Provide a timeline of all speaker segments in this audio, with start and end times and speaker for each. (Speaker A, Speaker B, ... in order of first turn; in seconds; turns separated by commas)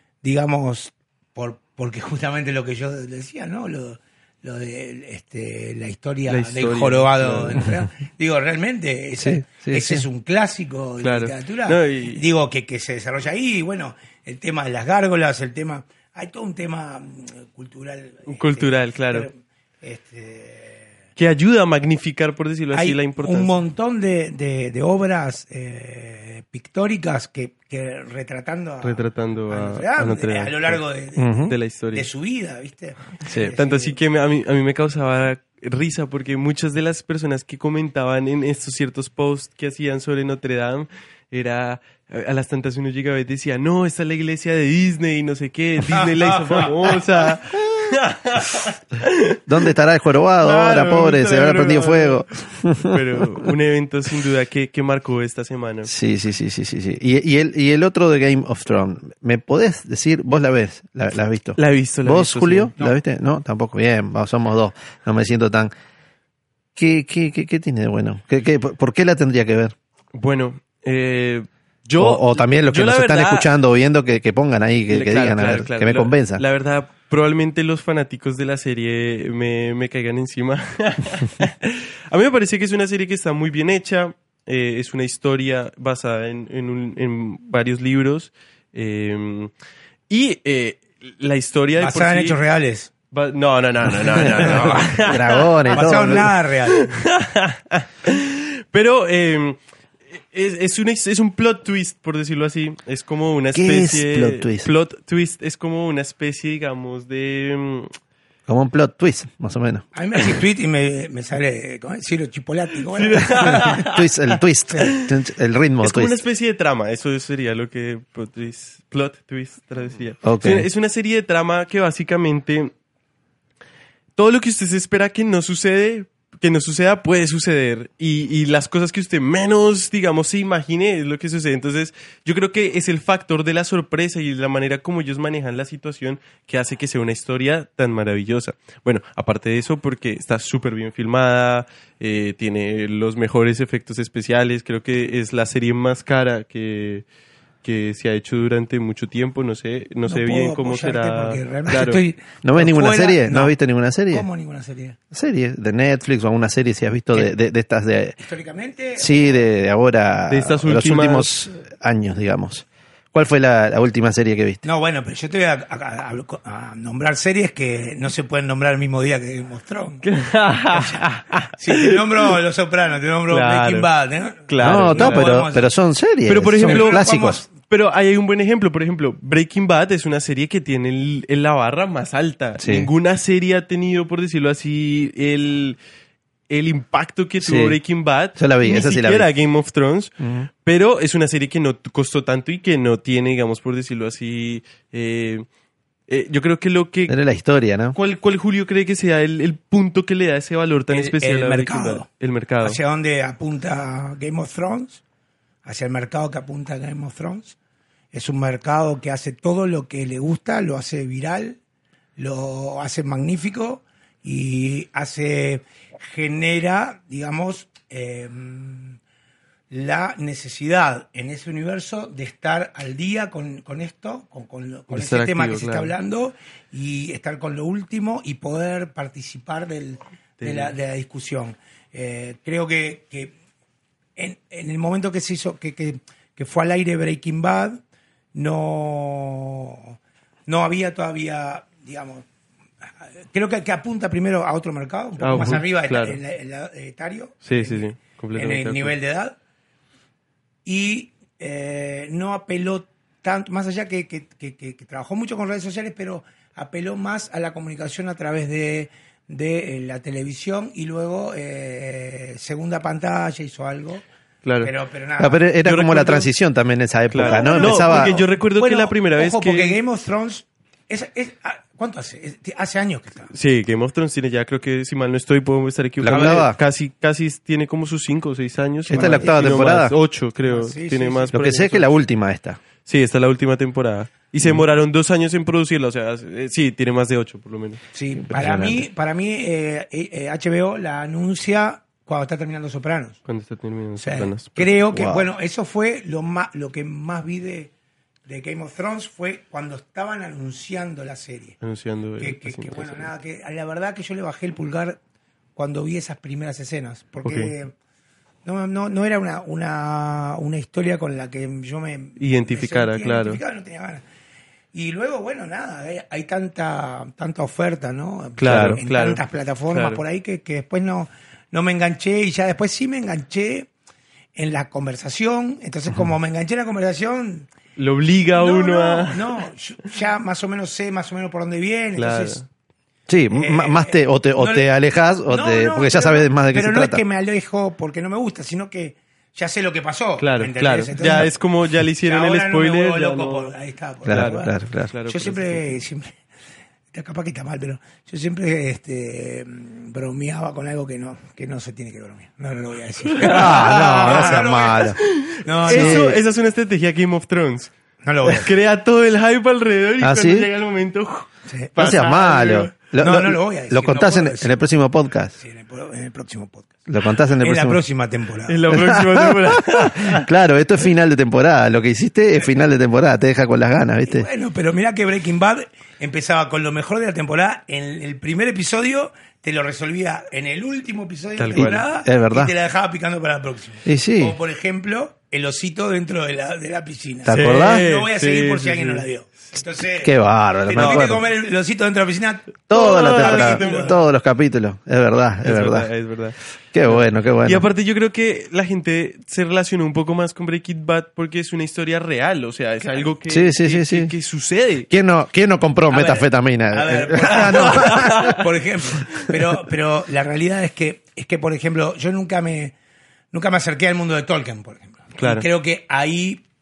Speaker A: 0.2-20.9, Speaker B: 6.3-7.7, Speaker C: 9.2-10.1, Speaker B: 11.0-12.2, Speaker B: 18.3-19.3, Speaker B: 21.2-23.5, Speaker A: 22.7-31.4, Speaker B: 28.8-30.8, Speaker C: 31.2-31.6, Speaker B: 31.4-32.1, Speaker A: 31.9-34.0, Speaker B: 33.3-49.4, Speaker A: 45.9-47.0, Speaker C: 49.5-53.2, Speaker B: 50.4-55.9, Speaker C: 55.9-65.7, Speaker B: 61.6-62.9, Speaker C: 66.8-69.7, Speaker B: 70.1-73.5, Speaker C: 72.0-76.4, Speaker B: 74.9-89.5, Speaker B: 90.1-92.4, Speaker A: 91.8-92.9, Speaker B: 93.1-95.8, Speaker C: 94.2-96.3, Speaker A: 94.4-95.0, Speaker A: 95.7-96.9, Speaker B: 96.7-99.6, Speaker B: 100.1-107.9, Speaker C: 103.5-104.7, Speaker C: 108.5-109.8, Speaker A: 109.9-113.8, Speaker B: 113.0-114.1, Speaker C: 113.6-116.1, Speaker B: 114.8-115.1, Speaker B: 115.8-122.7, Speaker C: 120.2-120.7, Speaker B: 124.2-147.0, Speaker B: 147.6-152.0, Speaker A: 150.0-153.6, Speaker C: 152.4-154.3, Speaker A: 154.1-155.0, Speaker C: 155.1-158.2, Speaker A: 158.2-159.4, Speaker C: 159.0-164.6, Speaker B: 160.3-161.3, Speaker A: 164.6-170.0, Speaker B: 170.0-172.0, Speaker A: 170.7-171.0, Speaker A: 171.6-175.7, Speaker B: 173.3-173.9, Speaker B: 174.5-175.3, Speaker C: 174.6-177.4, Speaker B: 176.2-185.8, Speaker A: 176.6-177.5, Speaker C: 182.6-182.9, Speaker B: 186.5-190.1, Speaker C: 187.4-187.8, Speaker C: 188.4-189.3, Speaker C: 190.2-190.5, Speaker B: 190.6-195.4, Speaker B: 196.1-197.2, Speaker C: 197.1-198.0, Speaker B: 197.9-202.8, Speaker A: 200.9-202.1, Speaker A: 202.6-205.0, Speaker A: 205.6-207.6, Speaker A: 208.1-211.6, Speaker A: 212.2-219.0, Speaker A: 219.7-233.3, Speaker B: 224.9-225.9, Speaker B: 230.4-230.7, Speaker A: 234.2-237.8, Speaker A: 238.3-239.9, Speaker A: 240.5-242.2, Speaker A: 242.8-249.3, Speaker B: 245.2-246.2, Speaker B: 247.4-248.9, Speaker A: 250.6-264.0, Speaker B: 264.4-264.7, Speaker A: 264.6-265.4, Speaker C: 265.2-268.2, Speaker B: 265.6-266.3, Speaker B: 267.1-269.8, Speaker A: 267.2-273.3, Speaker B: 273.3-281.9, Speaker C: 276.0-276.6, Speaker A: 276.1-276.5, Speaker C: 278.9-279.9, Speaker A: 278.9-279.6, Speaker A: 280.4-281.3, Speaker C: 281.3-282.6, Speaker B: 282.8-287.8, Speaker A: 287.9-293.2, Speaker C: 288.1-288.9, Speaker B: 293.2-294.7, Speaker A: 294.0-297.7, Speaker C: 294.9-295.3, Speaker A: 298.2-301.6, Speaker B: 301.6-303.1, Speaker A: 302.2-305.0, Speaker A: 305.6-307.7, Speaker B: 307.2-307.5, Speaker A: 308.4-314.0, Speaker B: 312.2-313.4, Speaker A: 314.7-323.7, Speaker B: 318.4-320.0, Speaker C: 318.5-318.8, Speaker A: 324.4-327.5, Speaker B: 327.8-329.4, Speaker A: 328.3-332.4, Speaker B: 331.9-332.4, Speaker C: 333.1-337.0, Speaker A: 333.3-334.7, Speaker A: 335.2-341.3, Speaker B: 340.2-343.5, Speaker A: 342.0-344.5, Speaker C: 344.0-344.9, Speaker B: 344.1-345.7, Speaker A: 345.1-346.2, Speaker A: 346.9-356.2, Speaker B: 353.2-357.7, Speaker C: 353.2-355.0, Speaker C: 355.7-356.2, Speaker A: 358.0-358.5, Speaker B: 358.2-362.6, Speaker C: 360.0-360.5, Speaker A: 361.5-364.6, Speaker C: 361.8-365.4, Speaker A: 365.4-366.8, Speaker C: 366.9-367.8, Speaker A: 367.4-368.6, Speaker B: 368.5-370.3, Speaker C: 368.7-374.3, Speaker A: 374.0-393.9, Speaker B: 381.4-381.8, Speaker C: 381.5-382.5, Speaker C: 383.8-384.4, Speaker C: 387.2-387.8, Speaker B: 387.3-389.1, Speaker C: 390.0-391.2, Speaker B: 390.7-391.1, Speaker C: 392.7-395.9, Speaker B: 392.7-394.0, Speaker B: 395.4-404.9, Speaker C: 396.7-397.6, Speaker C: 403.3-404.1, Speaker C: 404.9-408.4, Speaker A: 405.9-412.7, Speaker B: 407.3-408.4, Speaker A: 413.3-416.4, Speaker B: 415.2-415.4